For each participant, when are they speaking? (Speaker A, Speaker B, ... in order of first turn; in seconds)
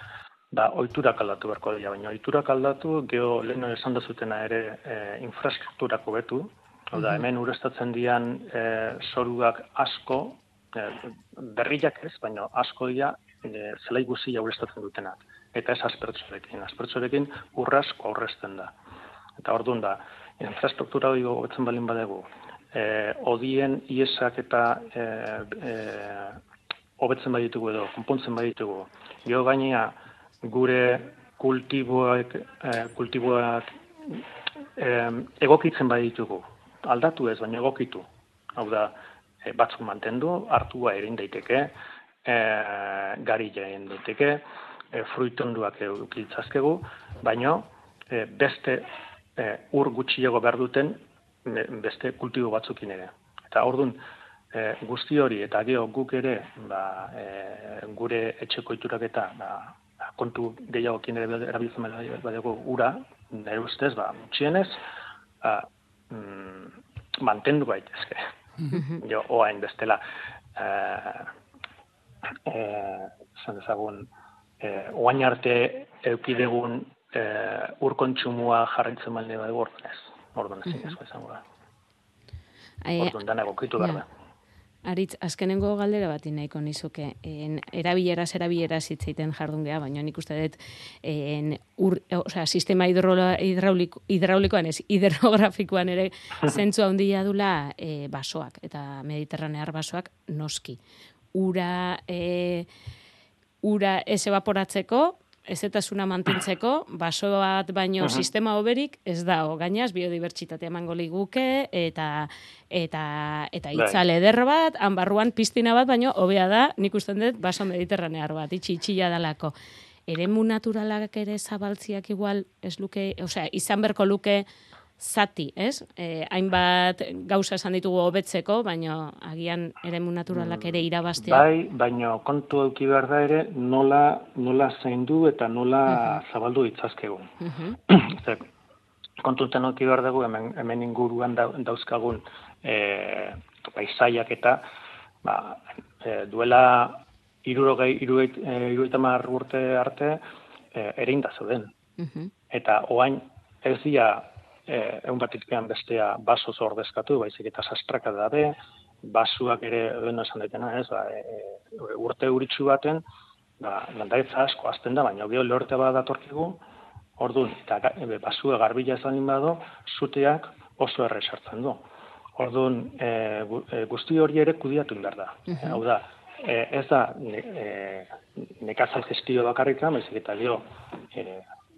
Speaker A: 0.5-18.7, 19.4-26.4, 27.0-34.2, 34.8-38.1, 38.6-41.7, 42.3-48.9, 49.4-54.0, 54.5-64.8, 65.4-68.2, 69.0-70.0, 70.6-71.3, 72.5-81.4, 83.0-84.1, 113.8-114.0, 130.3-137.3, 137.9-138.4, 139.2-144.6, 145.2-150.2, 150.7-151.7, 152.5-163.0, 163.6-166.6, 167.2-171.8, 172.4-181.4
Speaker B: 68.7-69.0, 80.7-81.0, 82.8-83.2, 84.8-100.8, 101.3-102.7, 103.6-119.5, 120.1-124.5, 125.0-131.5, 135.9-136.2, 137.4-137.8, 152.0-152.3, 175.5-175.8